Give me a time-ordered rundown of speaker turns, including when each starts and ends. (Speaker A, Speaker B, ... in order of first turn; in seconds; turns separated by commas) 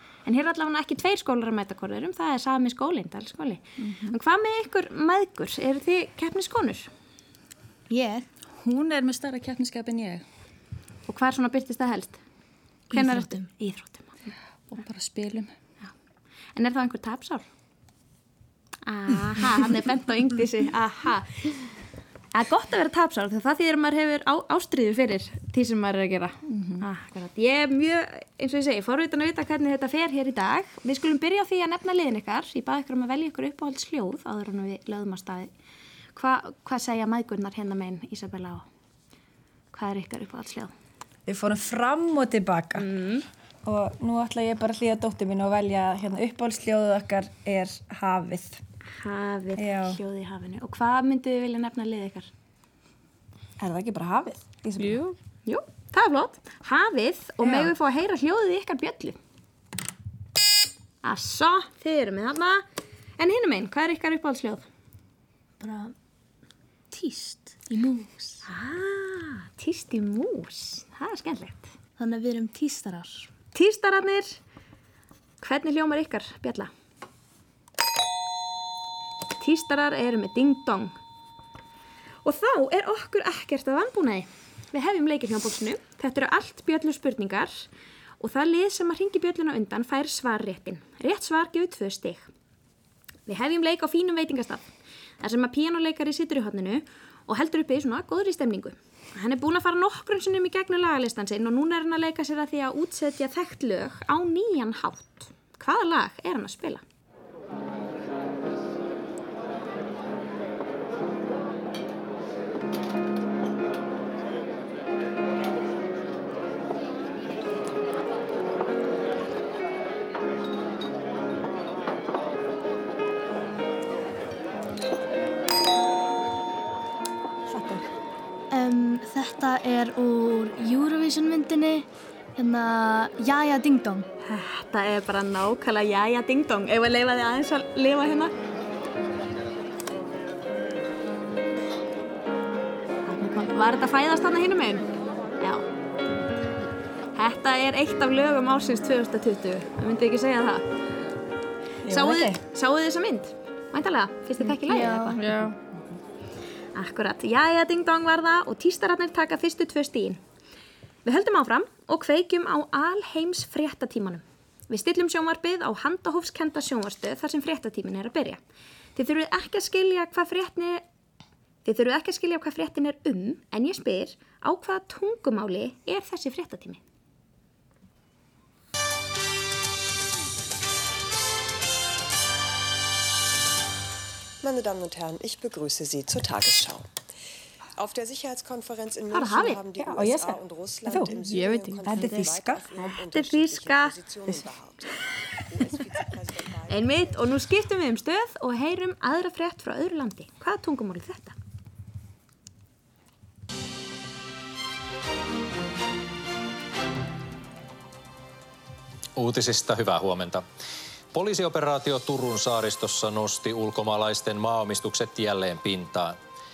Speaker A: 0.2-6.9, Speaker B: 3.8-4.1, Speaker C: 7.9-8.2, Speaker B: 8.6-10.2, Speaker A: 11.1-12.2, Speaker A: 12.9-14.2, Speaker C: 12.9-13.5, Speaker B: 14.7-15.5, Speaker A: 16.5-17.4, Speaker A: 18.9-21.7, Speaker A: 22.3-35.5, Speaker B: 26.5-26.8, Speaker A: 36.1-38.6, Speaker A: 39.7-40.7, Speaker D: 41.2-42.9, Speaker A: 42.8-43.2, Speaker D: 43.6-48.6, Speaker A: 49.0-52.3, Speaker D: 49.6-50.0, Speaker D: 53.6-55.0, Speaker E: 54.8-55.1, Speaker A: 55.5-59.2, Speaker D: 57.4-57.7, Speaker A: 61.0-62.6, Speaker A: 63.2-64.7, Speaker C: 65.6-65.9, Speaker C: 66.9-68.4, Speaker A: 68.4-71.7, Speaker C: 72.0-73.3, Speaker A: 73.5-74.4, Speaker A: 75.4-76.7, Speaker A: 79.4-81.0, Speaker A: 82.2-87.7, Speaker A: 88.2-92.3, Speaker A: 93.2-94.7, Speaker A: 95.2-106.8, Speaker D: 127.5-127.8, Speaker C: 128.5-134.1, Speaker A: 134.2-138.3, Speaker A: 143.1-144.8, Speaker A: 145.4-145.7, Speaker A: 147.1-150.6, Speaker D: 151.8-152.4, Speaker A: 151.9-155.2, Speaker E: 154.7-155.5, Speaker A: 156.7-160.2, Speaker A: 161.0-168.4, Speaker A: 168.9-170.8, Speaker A: 171.6-176.8, Speaker F: 184.4-186.9, Speaker F: 187.8-194.9, Speaker A: 189.1-189.6, Speaker D: 189.8-191.2, Speaker E: 191.2-192.0, Speaker D: 191.8-193.0, Speaker A: 193.1-194.0, Speaker F: 195.5-197.3, Speaker A: 196.7-201.3, Speaker G: 209.2-210.4, Speaker G: 211.1-216.2